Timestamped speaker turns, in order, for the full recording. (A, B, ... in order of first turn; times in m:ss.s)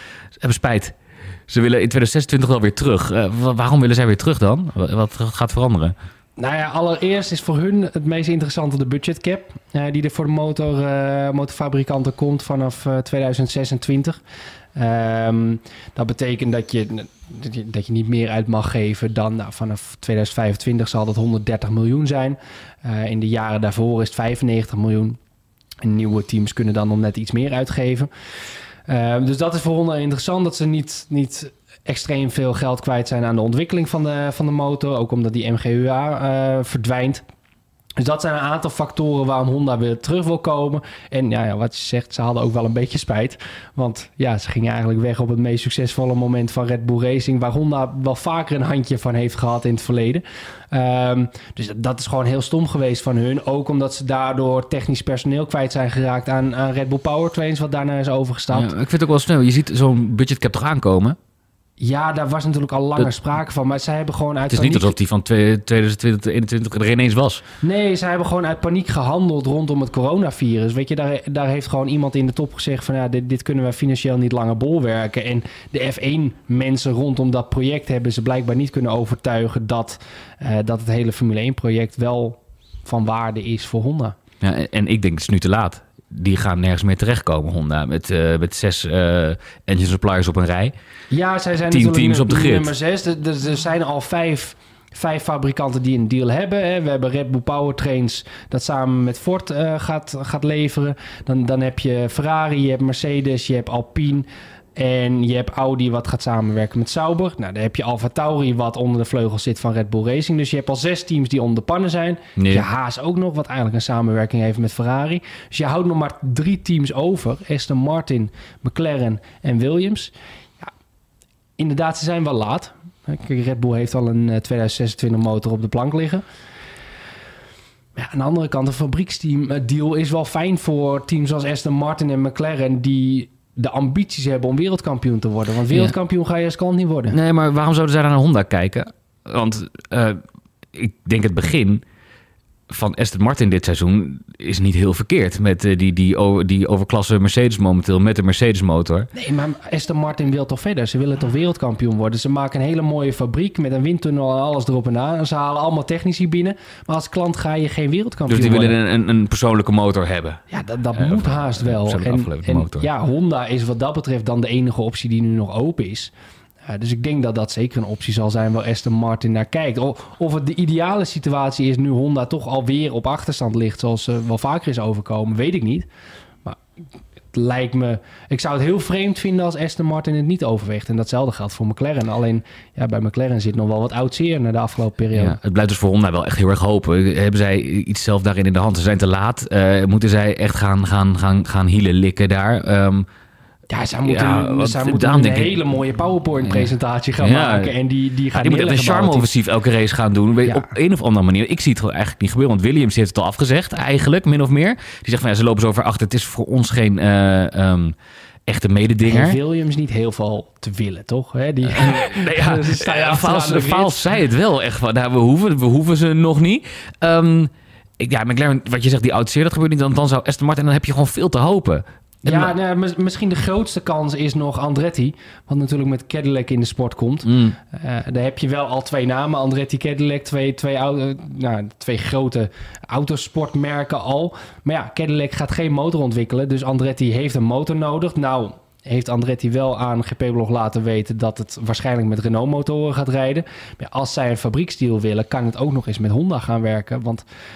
0:00.4-0:00.9 A
0:01.5-0:06.0 A
0:06.4-0:14.2 B
0:14.8-0:25.2 B
0:25.8-0:28.1 B
0:28.9-0:37.2 B
0:38.0-0:58.7 B
0:58.5-1:01.2 A
1:01.8-1:04.9 B
1:04.5-1:07.4 A
1:07.6-1:24.2 B
1:24.4-1:30.7 A
1:31.1-2:00.7 B
1:31.7-1:32.7 A
1:52.4-1:52.7 A
2:01.6-2:06.2 B
2:08.0-2:17.2 B
2:17.1-2:20.2 A
2:20.8-2:21.8 A
2:22.7-2:29.1 A
2:29.2-2:38.8 B
2:38.3-2:40.4 A
2:40.5-2:46.1 B
2:41.0-2:42.9 A
2:46.7-2:55.9 B
2:57.3-3:05.4 B
3:05.1-3:13.0 A
3:13.7-3:19.3 B
3:14.0-3:15.6 A
3:16.4-3:17.7 A
3:18.3-3:27.9 A
3:20.5-3:20.7 B
3:28.5-3:29.4 A
3:29.0-3:34.0 B
3:31.6-3:42.5 A
3:42.2-4:07.2 B
3:47.3-3:47.6 A